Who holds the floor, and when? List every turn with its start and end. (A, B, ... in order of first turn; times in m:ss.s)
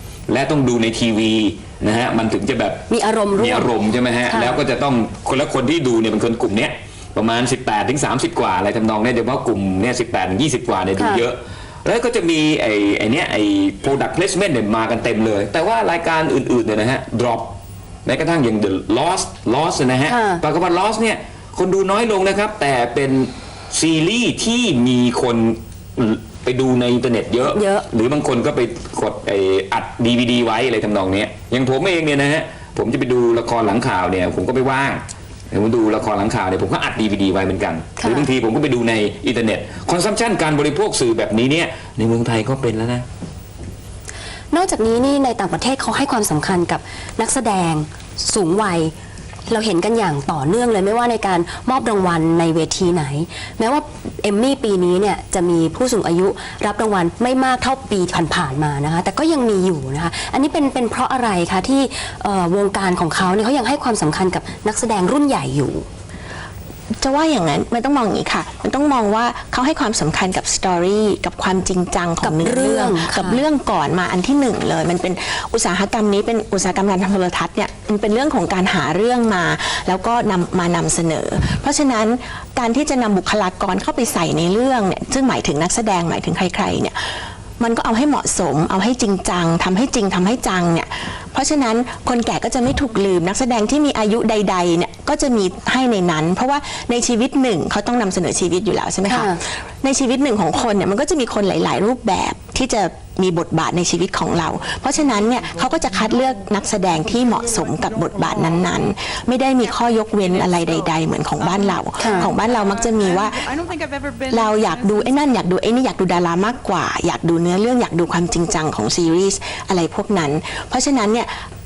0:00.3-0:43.1 A
0:02.9-0:03.7 B
0:04.3-0:04.6 B
0:11.0-0:11.3 B
0:20.1-0:20.4 B
0:27.5-0:27.9 B
0:38.0-0:38.3 B
0:44.5-0:48.9 B
0:49.5-1:05.9 B
1:07.0-1:27.0 C
1:12.2-1:13.4 B
1:27.6-1:53.5 C
1:39.1-1:39.4 B
1:45.7-1:46.2 D
1:47.2-1:48.5 D
1:50.2-1:50.7 D
1:51.4-1:55.3 D
1:52.0-1:52.3 B
1:54.3-2:01.3 C